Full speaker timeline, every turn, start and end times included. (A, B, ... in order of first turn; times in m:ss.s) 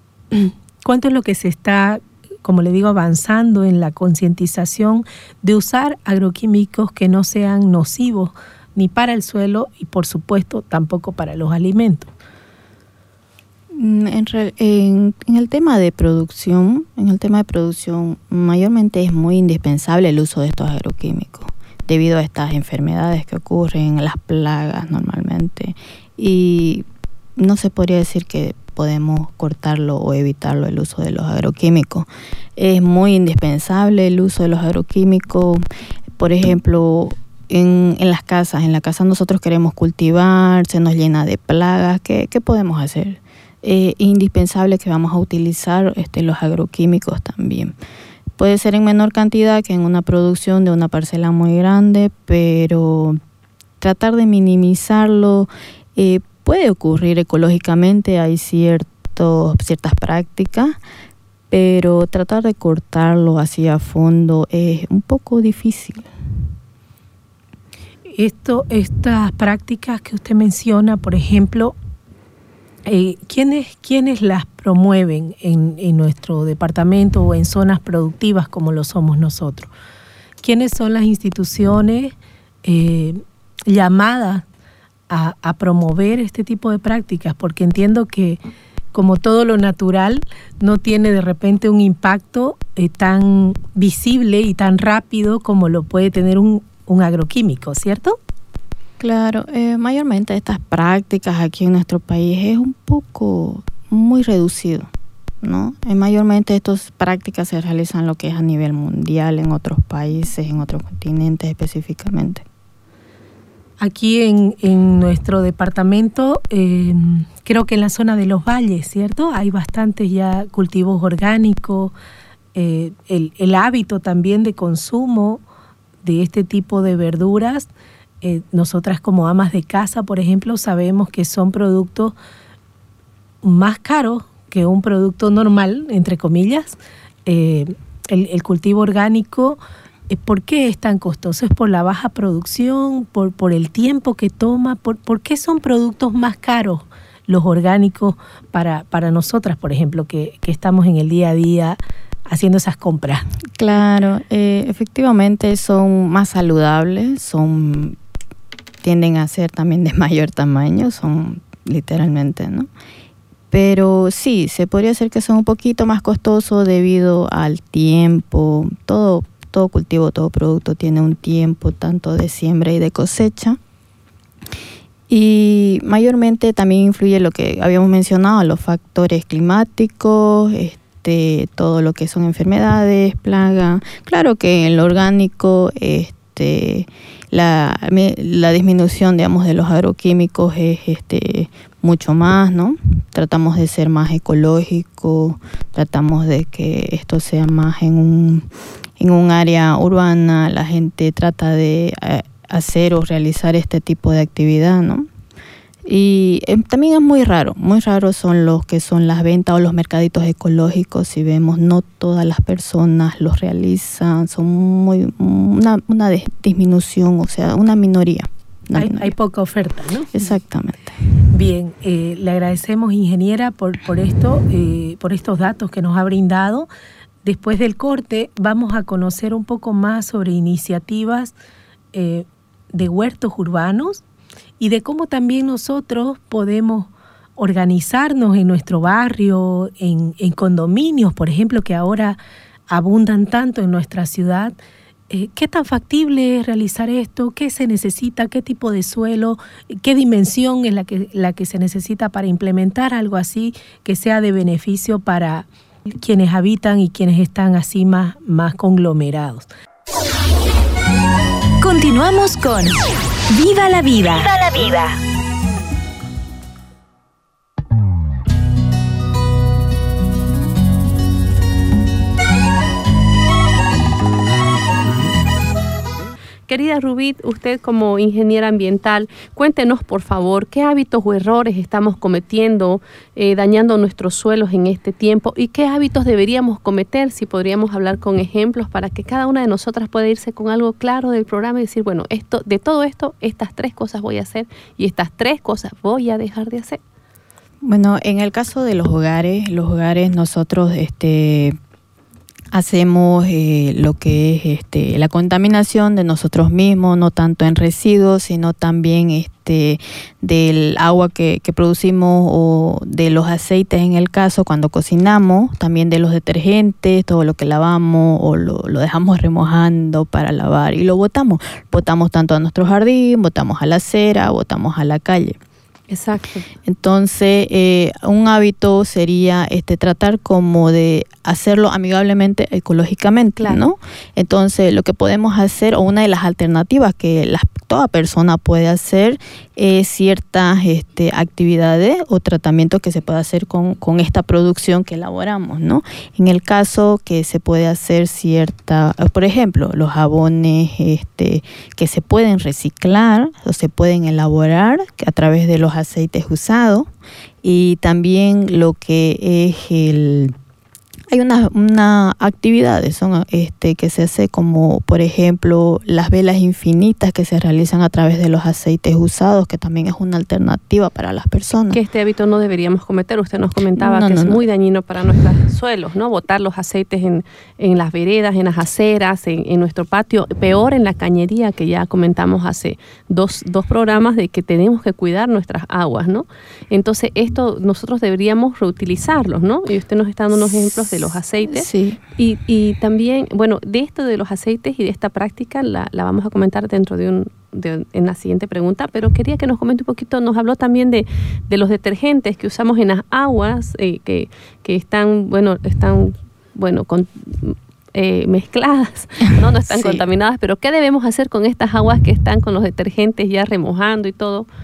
0:00.3-0:12.1 A
0:13.7-0:26.8 B
0:27.4-0:35.6 B
0:36.2-0:47.7 B
0:48.4-0:53.2 B
0:53.8-1:00.8 B
1:01.5-1:06.1 B
1:08.2-1:11.8 A
1:12.8-1:19.7 A
1:20.4-1:22.1 A
1:22.6-1:24.4 A
1:25.1-1:28.4 A
1:28.9-1:38.2 A
1:39.0-1:44.9 B
1:45.4-1:52.4 B
1:53.8-2:01.9 A
2:02.6-2:05.4 A
2:06.0-2:07.7 A
2:08.2-2:12.1 A
2:13.4-2:33.3 A
2:33.6-2:38.0 B
2:38.8-2:42.7 B
2:43.5-2:53.6 B
2:55.1-3:25.1 B
3:25.8-3:39.1 B
3:38.8-3:40.1 A
3:40.1-3:40.9 B
3:41.3-3:46.7 A
3:47.2-3:51.3 A
3:51.9-3:54.0 A
3:54.6-4:02.2 A
4:02.7-4:04.6 A
4:05.1-4:19.5 A
4:21.6-4:22.8 C
4:23.3-4:25.0 C
4:36.5-4:56.8 D
4:57.6-5:01.6 B
5:02.5-5:25.4 B
5:25.9-5:26.4 D
5:26.7-5:56.9 B
5:57.4-6:00.3 B
6:01.1-6:11.8 B
6:11.7-6:54.5 D
6:13.8-6:14.4 B
6:31.5-6:32.0 B
6:49.7-6:50.0 B